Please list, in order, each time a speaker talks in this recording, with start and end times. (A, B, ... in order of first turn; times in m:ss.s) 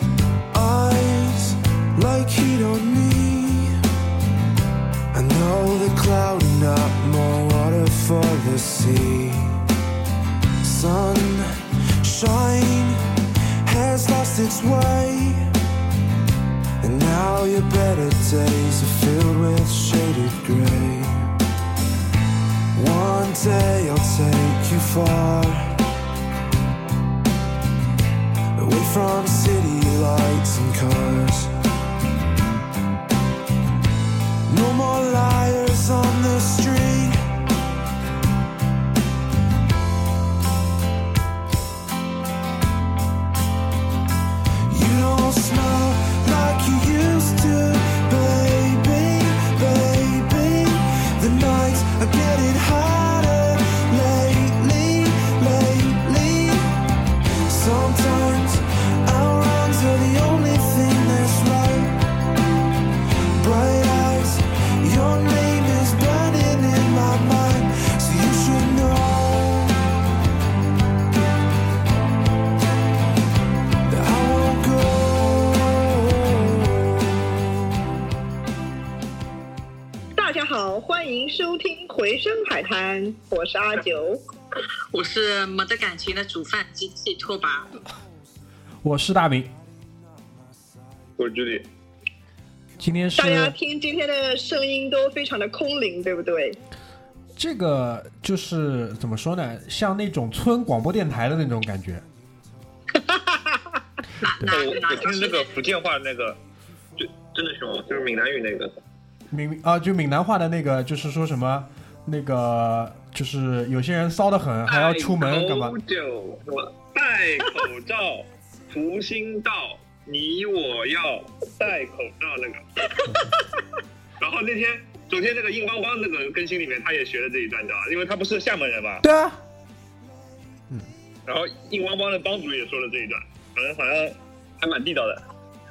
0:00.5-0:03.7 A
0:05.1-0:09.6 A
0:10.6-0:13.0 A
0:13.6-0:15.5 A
0:16.8-0:21.3 A
0:22.8-0:25.8 A
0:28.6-0:31.5 A
0:34.5-0:37.2 A
0:44.7-0:56.7 A
0:57.5-1:02.0 A
1:03.4-1:09.8 A
1:13.9-1:17.6 A
1:20.2-1:24.2 B
1:24.9-1:27.7 C
1:28.8-1:29.5 D
1:31.2-1:31.7 E
1:32.8-1:33.6 D
1:33.2-1:36.6 B
1:37.4-1:42.0 D
1:43.0-1:43.8 B
1:44.2-1:45.5 C
1:44.4-1:46.4 E
1:47.0-1:48.7 E
1:49.3-1:55.8 D
1:54.7-2:02.6 E
2:03.1-2:03.4 D
2:04.2-2:09.0 E
2:09.0-2:09.4 D
2:11.3-2:15.2 E